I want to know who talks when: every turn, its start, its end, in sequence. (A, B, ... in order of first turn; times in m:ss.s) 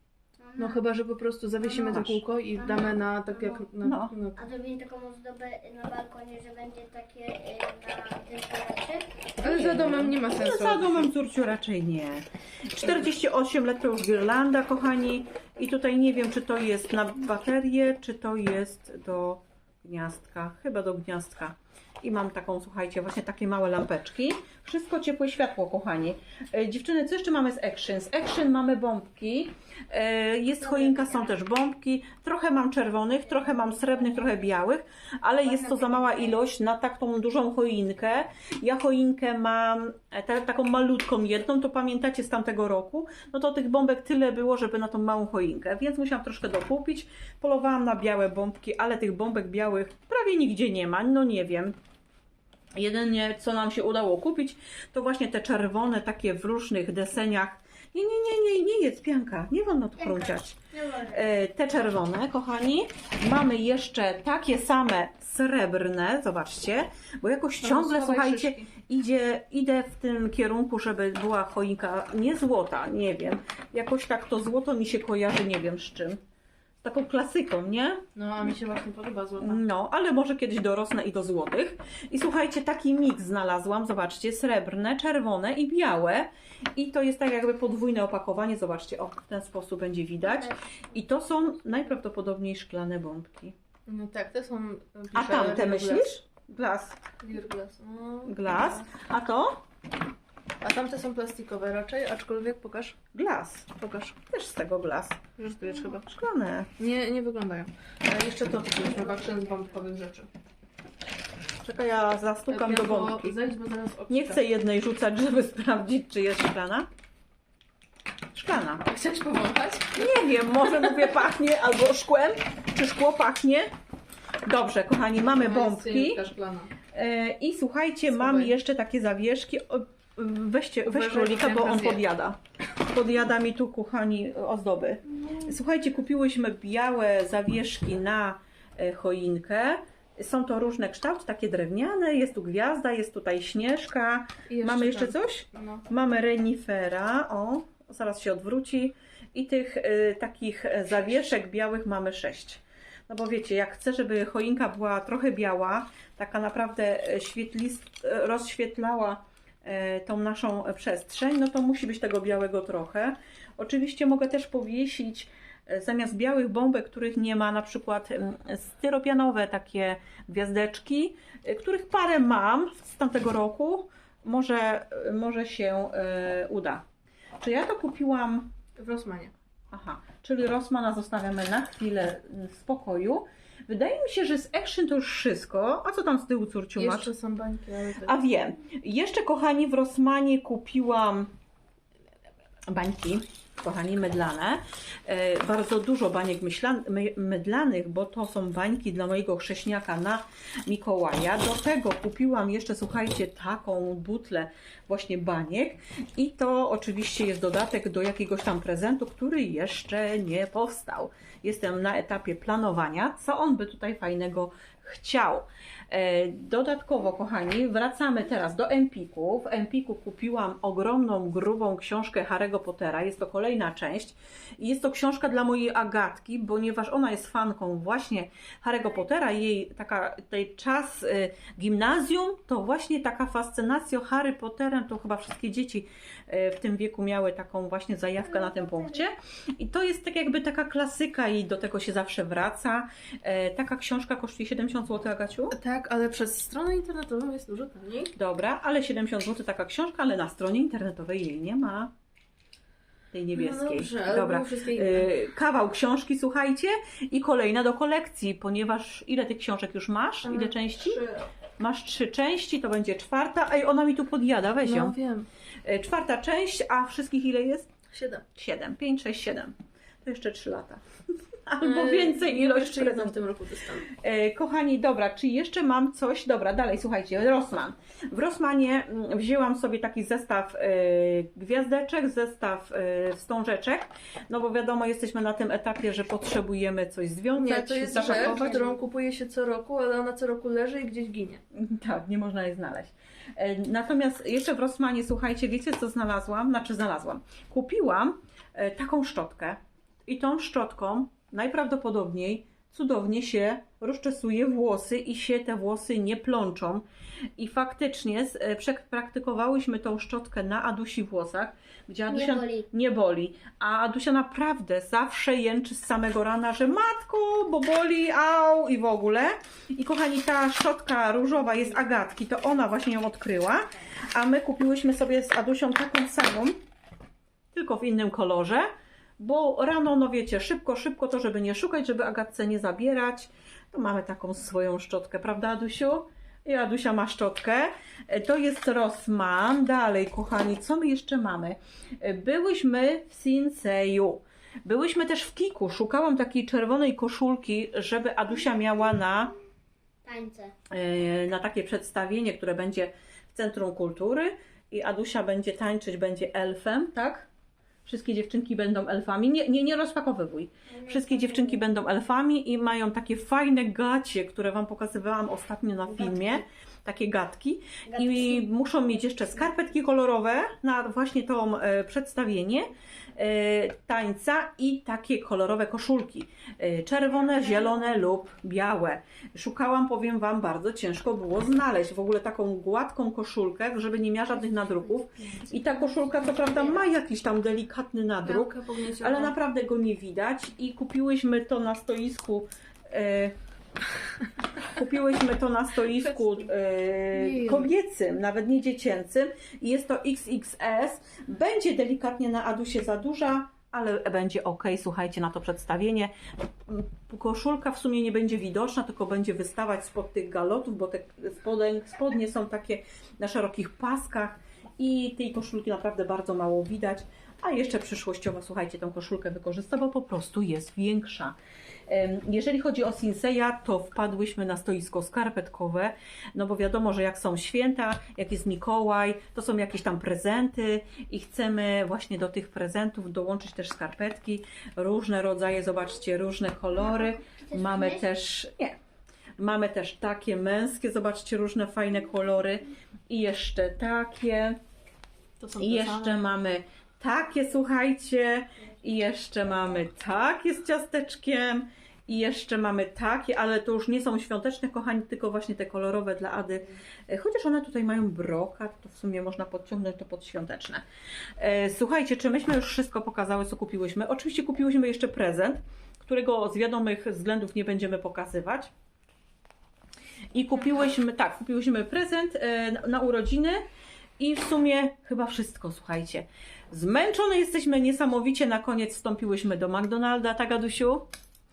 0:00.4-0:00.8 A
0:00.6-0:04.4 B
0:01.8-0:02.2 C
0:02.5-0:03.6 A
0:03.8-0:04.1 C
0:04.4-0:09.3 A
0:09.4-0:11.1 B
0:09.4-0:51.7 C
0:30.8-0:31.2 A
0:35.5-0:36.3 B
0:52.7-1:16.2 C
1:00.0-1:01.2 A
1:07.6-1:08.7 B
1:16.8-1:18.0 C
1:18.1-1:19.6 B
1:19.4-1:33.5 C
1:33.8-1:36.1 B
1:35.1-1:37.0 C
1:37.2-1:38.8 B
1:38.2-1:39.6 C
1:40.6-1:43.0 B
1:43.1-1:45.2 C
1:43.8-1:44.2 B
1:45.4-1:46.0 B
1:46.0-1:46.7 C
1:46.8-1:50.3 B
1:51.6-1:53.3 C
1:52.5-1:54.4 B
1:54.1-1:56.9 C
1:58.3-1:58.8 C
1:58.8-2:00.1 B
1:59.9-2:03.7 C
2:04.4-2:06.2 C
2:05.3-2:06.7 B
2:06.9-2:56.8 C
2:08.1-2:08.5 B
2:10.8-2:12.0 B
2:24.5-2:25.8 B
2:57.4-2:58.5 C
2:58.8-2:59.3 B
2:59.7-3:07.1 C
3:06.8-3:08.2 B
3:08.0-3:11.3 C
3:12.7-4:05.5 C
4:05.5-4:08.1 B
4:08.2-4:11.9 C
4:13.1-4:21.0 C
4:13.3-4:15.1 B
4:20.2-4:21.2 B
4:21.6-4:25.0 C
4:24.6-4:25.3 B
4:25.6-4:27.7 C
4:27.9-4:28.2 B
4:28.3-4:30.8 C
4:31.4-4:33.1 C
4:31.6-4:33.9 B
4:33.8-4:48.7 C
4:47.3-4:51.4 B
4:51.5-5:06.8 C
5:07.4-5:26.6 C
5:12.1-5:12.7 A
5:27.5-5:28.7 C
5:29.2-5:49.3 C
5:50.0-5:50.5 A
5:50.7-5:57.3 C
5:57.8-6:33.3 C
6:00.7-6:01.6 A
6:07.9-6:08.4 A
6:17.3-6:17.7 A
6:25.3-6:26.7 A
6:28.2-6:29.3 B
6:34.6-6:46.1 C
6:37.1-6:37.7 B
6:46.6-7:01.4 C
7:01.9-7:18.8 C
7:16.9-7:18.0 A
7:19.4-7:24.6 C
7:25.4-7:26.2 B
7:25.6-7:40.8 C
7:41.4-7:48.7 C
7:50.3-7:53.6 C
7:54.2-8:01.1 C